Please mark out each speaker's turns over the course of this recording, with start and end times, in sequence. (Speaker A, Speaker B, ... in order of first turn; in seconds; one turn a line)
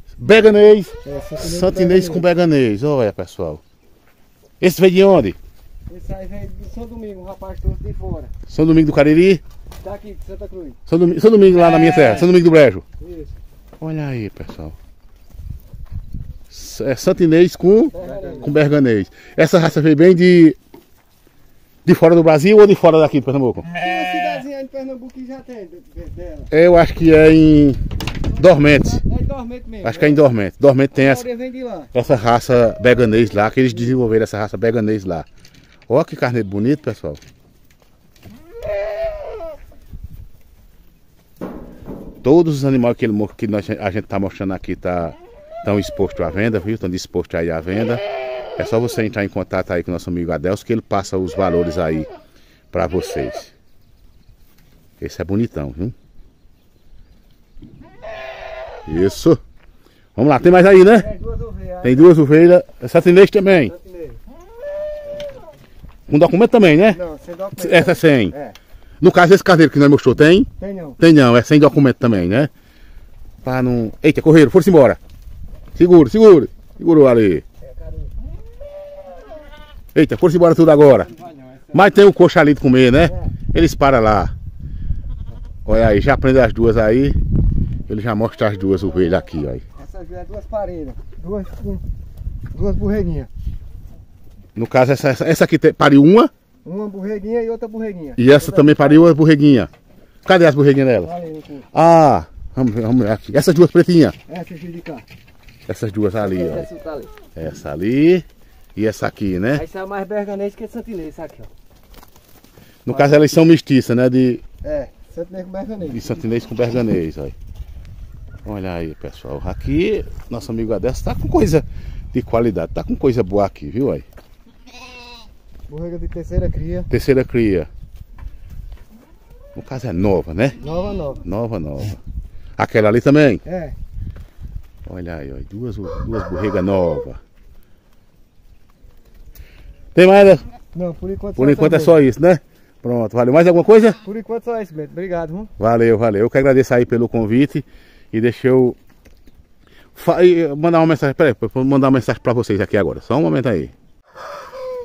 Speaker A: 0.2-3.6
Speaker B: 1.0-2.2
Speaker A: 4.6-5.4
Speaker B: 5.9-8.3
Speaker A: 8.5-9.4
Speaker B: 9.8-10.8
Speaker A: 10.9-12.8
Speaker B: 12.0-12.2
Speaker B: 13.0-13.3
Speaker A: 13.8-14.8
Speaker A: 16.5-20.6
Speaker B: 17.9-18.6
Speaker A: 21.9-23.7
Speaker B: 23.7-26.5
Speaker A: 26.5-27.8
Speaker A: 28.4-29.0
Speaker B: 28.9-30.2
Speaker A: 29.8-31.2
Speaker B: 31.0-31.9
Speaker A: 31.9-35.3
Speaker B: 33.7-34.0
Speaker A: 35.9-37.2
Speaker A: 42.2-48.0
Speaker A: 48.6-52.1
Speaker A: 52.7-53.5
Speaker A: 55.0-55.9
Speaker A: 58.9-59.4
Speaker A: 60.1-61.1
Speaker B: 60.9-62.1
Speaker A: 61.8-63.7
Speaker B: 63.6-64.2
Speaker A: 66.1-67.0
Speaker B: 66.9-68.6
Speaker A: 67.5-68.3
Speaker A: 69.0-72.5
Speaker B: 70.6-71.0
Speaker A: 73.4-75.0
Speaker A: 75.8-77.5
Speaker B: 77.6-78.1
Speaker A: 80.0-81.1
Speaker B: 81.0-81.9
Speaker A: 81.7-84.3
Speaker B: 83.0-83.3
Speaker A: 85.7-87.2
Speaker A: 87.9-89.6
Speaker B: 89.8-91.8
Speaker B: 92.5-93.3
Speaker A: 94.6-96.3
Speaker B: 96.6-99.1
Speaker A: 98.2-99.7
Speaker A: 100.2-101.1
Speaker B: 101.0-101.7
Speaker A: 101.7-104.2
Speaker B: 104.3-105.1
Speaker A: 105.7-106.7
Speaker B: 106.2-107.1
Speaker A: 107.3-108.2
Speaker A: 108.8-109.6
Speaker B: 109.5-111.5
Speaker A: 112.9-114.4
Speaker B: 114.6-116.2
Speaker A: 115.8-117.3
Speaker A: 118.5-124.1
Speaker B: 125.7-126.9
Speaker A: 126.9-127.7
Speaker A: 129.6-130.6
Speaker B: 130.6-131.2
Speaker A: 131.2-132.0
Speaker A: 132.6-133.4
Speaker B: 133.4-133.8
Speaker A: 134.9-137.2
Speaker A: 139.9-140.5
Speaker B: 140.7-142.0
Speaker A: 141.4-144.0
Speaker B: 144.0-145.5
Speaker A: 145.6-148.8
Speaker A: 149.9-153.7